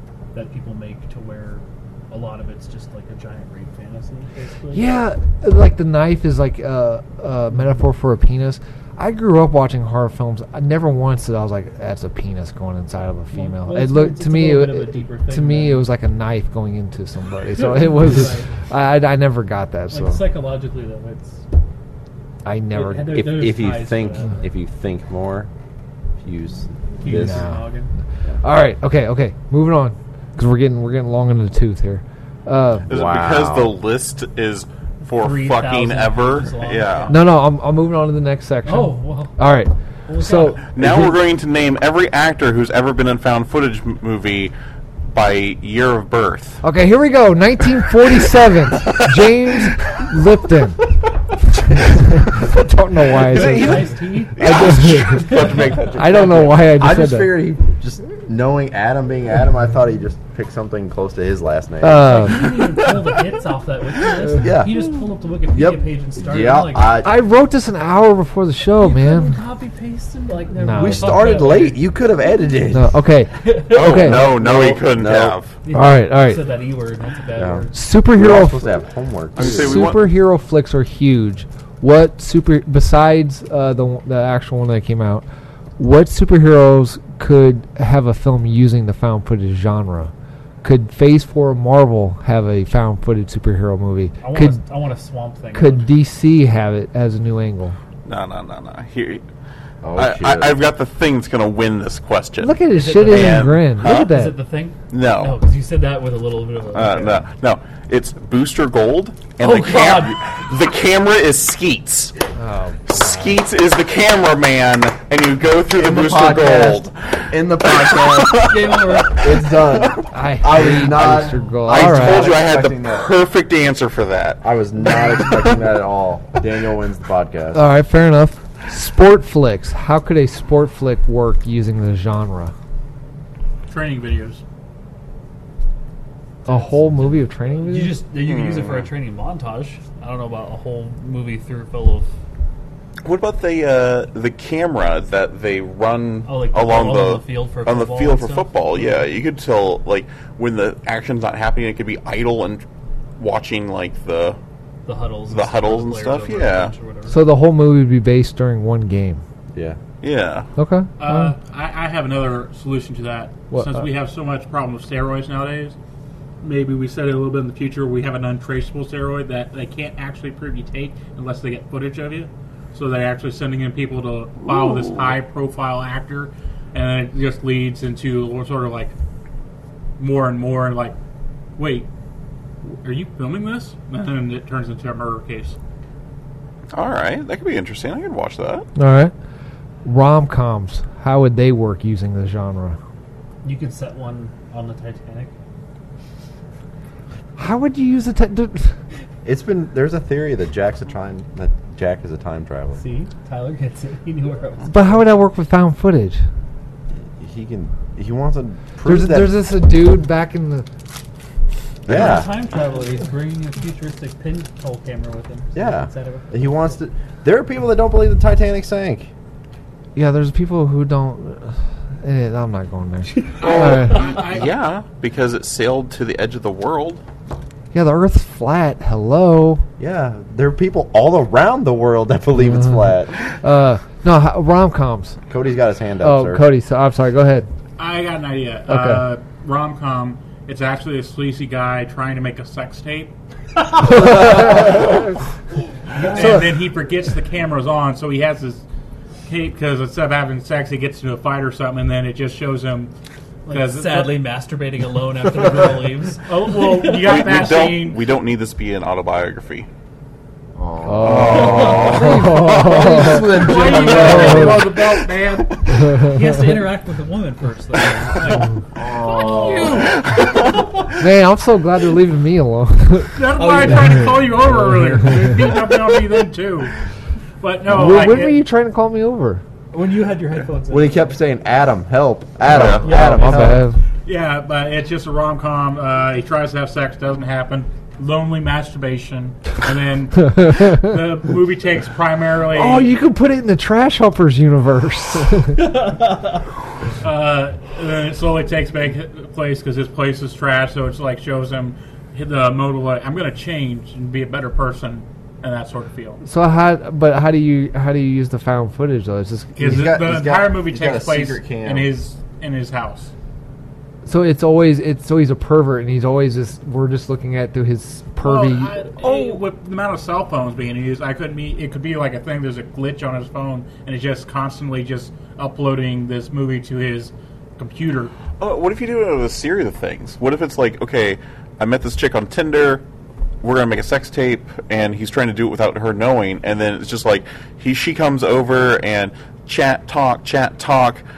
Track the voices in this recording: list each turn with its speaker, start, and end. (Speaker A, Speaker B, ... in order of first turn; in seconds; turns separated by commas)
Speaker A: 0.3-5.0, Speaker B: 4.7-20.2, Speaker A: 13.3-15.9, Speaker A: 17.5-18.5, Speaker A: 19.9-21.5, Speaker B: 22.4-23.2, Speaker A: 22.7-24.4, Speaker C: 23.1-25.5, Speaker C: 26.2-27.5, Speaker A: 27.0-27.9, Speaker B: 27.1-27.6, Speaker B: 28.4-32.9, Speaker C: 32.9-33.7, Speaker D: 32.9-37.2, Speaker A: 35.0-37.3, Speaker B: 37.1-41.1, Speaker A: 38.6-39.4, Speaker A: 40.1-40.6, Speaker D: 40.7-44.5, Speaker D: 45.1-46.6, Speaker B: 46.6-50.8, Speaker B: 51.5-57.3, Speaker D: 53.2-56.7, Speaker A: 53.3-55.8, Speaker C: 56.6-62.4, Speaker B: 61.8-62.4, Speaker A: 62.0-66.9, Speaker C: 64.4-64.8, Speaker C: 65.5-67.1, Speaker B: 67.0-69.4, Speaker A: 68.8-71.8, Speaker B: 70.5-71.5, Speaker C: 70.8-73.0, Speaker B: 72.7-74.3, Speaker A: 73.4-74.0, Speaker D: 73.5-75.5, Speaker C: 74.0-75.4, Speaker A: 75.6-77.8, Speaker B: 75.7-76.4, Speaker C: 77.4-79.9, Speaker B: 77.7-78.7, Speaker D: 79.3-80.1, Speaker B: 79.4-85.2, Speaker B: 85.8-94.6, Speaker A: 94.2-95.8, Speaker B: 95.5-97.8, Speaker D: 98.0-99.2, Speaker C: 99.8-100.6, Speaker D: 100.0-104.2, Speaker B: 102.4-104.3, Speaker A: 102.7-107.2, Speaker D: 104.9-105.4, Speaker D: 106.7-112.1, Speaker A: 109.4-110.2, Speaker B: 112.3-113.4, Speaker D: 112.9-116.9, Speaker C: 115.7-118.5, Speaker D: 117.6-118.9, Speaker A: 118.4-119.3, Speaker C: 119.1-123.1, Speaker B: 120.1-122.4, Speaker D: 121.6-124.4, Speaker C: 124.4-127.6, Speaker A: 125.0-125.3, Speaker B: 127.5-132.5, Speaker E: 133.7-134.4, Speaker A: 136.4-142.1, Speaker B: 136.4-138.0, Speaker D: 138.2-138.9, Speaker D: 143.0-152.6, Speaker A: 146.2-149.0, Speaker D: 153.2-154.4, Speaker A: 154.8-157.2, Speaker D: 155.3-156.7, Speaker B: 157.1-159.2, Speaker C: 159.5-159.8, Speaker D: 160.0-160.5, Speaker B: 160.6-161.3, Speaker E: 161.0-165.8, Speaker B: 163.5-163.8, Speaker E: 166.4-178.9, Speaker D: 174.5-175.1, Speaker E: 180.0-180.9, Speaker E: 181.6-181.9, Speaker E: 182.8-185.6, Speaker D: 186.7-188.7, Speaker B: 188.8-189.1, Speaker B: 189.8-192.8, Speaker A: 193.4-195.3, Speaker B: 197.4-198.7, Speaker C: 199.2-202.8, Speaker A: 202.8-205.0, Speaker B: 204.7-206.2, Speaker C: 207.2-209.3, Speaker B: 208.8-210.7, Speaker C: 211.8-212.3, Speaker A: 211.8-216.7, Speaker C: 215.5-219.1, Speaker B: 219.9-224.1, Speaker E: 223.4-224.5, Speaker D: 223.4-227.0, Speaker B: 227.7-229.6, Speaker C: 229.8-233.2, Speaker B: 232.3-235.2, Speaker C: 235.3-236.4, Speaker B: 236.0-237.5, Speaker E: 237.8-243.1, Speaker B: 238.7-239.1, Speaker B: 243.8-245.1, Speaker E: 243.9-245.0, Speaker A: 245.9-246.5, Speaker E: 245.9-248.6, Speaker B: 246.2-246.5, Speaker E: 249.2-252.9, Speaker A: 253.4-257.4, Speaker E: 253.5-254.2, Speaker E: 256.2-258.0, Speaker D: 257.0-259.7, Speaker C: 260.6-265.1, Speaker B: 260.8-263.4, Speaker D: 260.9-262.4, Speaker A: 261.4-264.6, Speaker E: 263.1-265.5, Speaker B: 263.9-264.7, Speaker B: 265.7-266.5, Speaker A: 265.9-270.7, Speaker C: 268.8-270.0, Speaker E: 269.1-269.9, Speaker B: 271.0-273.2, Speaker E: 273.1-276.7, Speaker A: 273.3-274.6, Speaker E: 277.4-278.4, Speaker B: 277.7-279.4, Speaker A: 279.7-281.2, Speaker C: 280.7-283.7, Speaker D: 282.5-282.9, Speaker B: 282.5-283.8, Speaker A: 282.8-283.5, Speaker E: 284.0-292.9, Speaker B: 292.5-295.7, Speaker A: 295.5-296.4, Speaker E: 297.0-306.2, Speaker B: 306.2-309.9, Speaker E: 309.6-313.1, Speaker C: 309.6-311.9, Speaker B: 314.1-318.8, Speaker E: 318.2-328.1, Speaker D: 328.4-332.8, Speaker D: 333.4-341.0